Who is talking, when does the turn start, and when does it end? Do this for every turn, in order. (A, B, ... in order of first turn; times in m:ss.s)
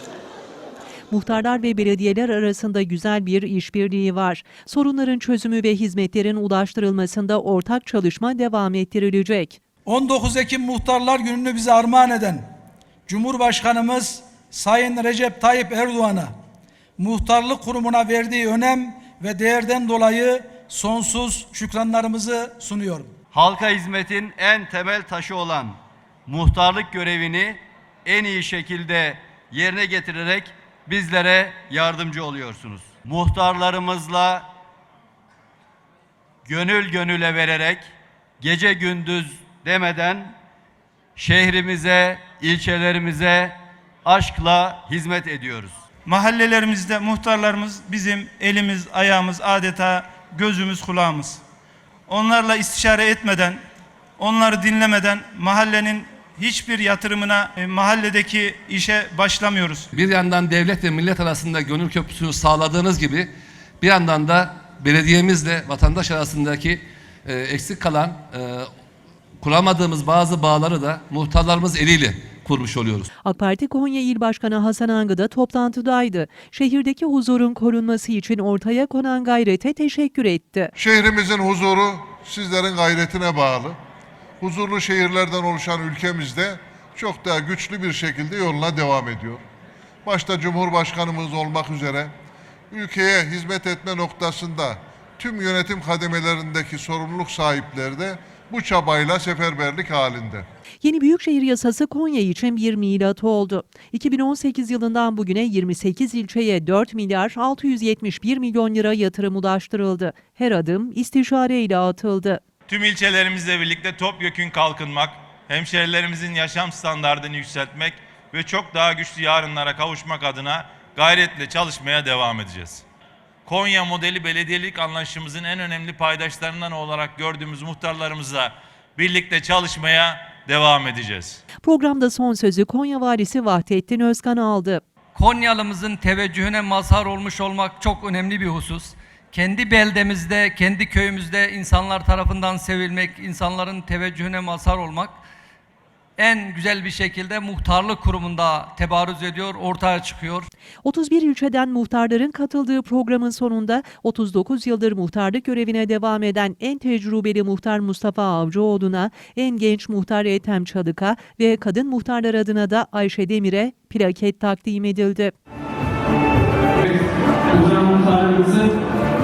0:01.1-0:09.6 A
0:09.8-0:12.4 B
0:13.1-0:16.3 B
0:17.0-0:23.1 B
0:23.3-0:34.5 C
0:36.4-0:37.9 C
0:38.4-0:40.4 C
0:41.2-0:45.8 C
0:46.0-0:51.4 D
0:52.1-0:53.6 D
0:54.2-0:59.9 D
0:59.9-1:03.3 E
1:03.8-1:08.6 E
1:09.4-1:13.0 E
1:13.2-1:20.7 A
1:20.8-1:23.8 F
1:24.4-1:29.4 F
1:30.0-1:32.1 F
1:32.7-1:40.4 F
1:40.8-1:52.4 A
1:52.7-2:02.8 G
2:03.4-2:11.4 G
2:11.6-2:14.8 A
2:15.1-2:25.2 H
2:26.2-2:30.5 H
2:30.8-2:45.3 A
2:47.5-2:48.7 H